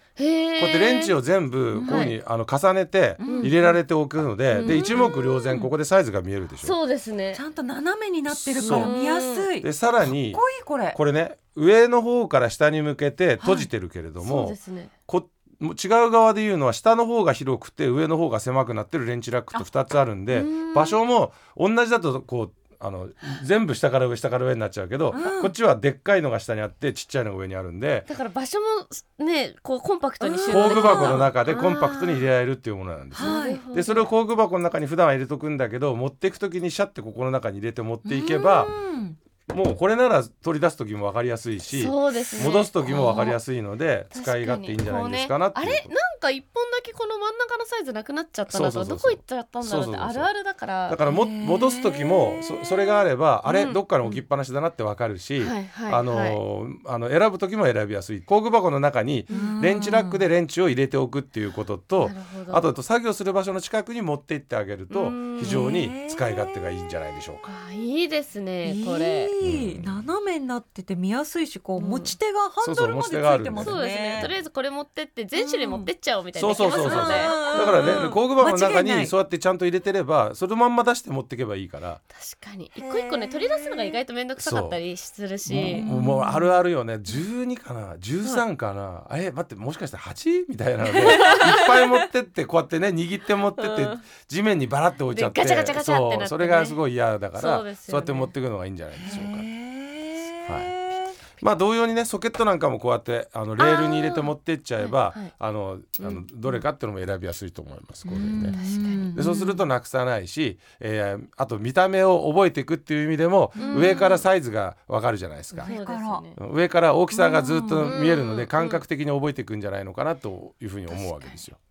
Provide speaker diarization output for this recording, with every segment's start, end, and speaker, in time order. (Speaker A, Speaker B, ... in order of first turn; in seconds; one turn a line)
Speaker A: 0.2-1.2
Speaker B: 0.6-6.8
Speaker C: 1.7-2.1
Speaker A: 1.8-2.1
Speaker C: 3.2-3.8
Speaker A: 3.2-3.5
Speaker A: 4.5-5.5
Speaker C: 4.5-5.7
Speaker A: 6.6-7.4
Speaker C: 7.3-11.0
Speaker B: 8.3-8.9
Speaker A: 8.6-9.5
Speaker B: 9.6-10.4
Speaker B: 10.9-14.6
Speaker C: 13.4-13.7
Speaker A: 14.2-14.9
Speaker B: 15.1-28.1
Speaker A: 20.3-21.0
Speaker C: 25.1-25.6
Speaker A: 28.1-32.3
Speaker C: 30.2-31.3
Speaker B: 30.5-38.7
Speaker C: 33.2-33.6
Speaker A: 33.2-34.1
Speaker C: 38.0-39.2
Speaker B: 39.5-45.9
Speaker A: 41.7-43.3
Speaker C: 42.8-43.4
Speaker A: 44.1-51.0
Speaker B: 48.5-50.3
Speaker B: 50.9-67.5
Speaker C: 51.0-52.7
Speaker A: 53.5-54.2
Speaker A: 55.4-56.4
Speaker C: 59.3-60.2
Speaker A: 62.0-62.7
Speaker A: 64.9-65.7
Speaker C: 65.4-66.5
Speaker A: 67.5-69.3
Speaker C: 68.6-74.3
Speaker B: 69.4-70.1
Speaker A: 71.8-72.2
Speaker B: 72.6-74.4
Speaker A: 73.6-78.2
Speaker C: 75.4-75.9
Speaker B: 76.4-82.0
Speaker C: 76.6-79.2
Speaker A: 82.2-85.9
Speaker C: 82.8-84.0
Speaker B: 84.4-84.8
Speaker B: 85.5-99.5
Speaker C: 85.6-86.5
Speaker A: 91.0-91.7
Speaker A: 93.6-94.0
Speaker A: 95.1-96.8
Speaker A: 97.4-98.3
Speaker C: 99.0-101.2
Speaker B: 100.5-100.7
Speaker B: 101.4-108.6
Speaker A: 103.6-105.3
Speaker C: 108.1-109.6
Speaker A: 108.4-109.2
Speaker B: 109.1-115.8
Speaker C: 113.6-114.2
Speaker A: 113.6-114.2
Speaker C: 115.5-116.2
Speaker A: 115.6-116.4
Speaker B: 116.4-121.6
Speaker C: 117.1-118.0
Speaker A: 117.8-118.8
Speaker A: 120.9-121.4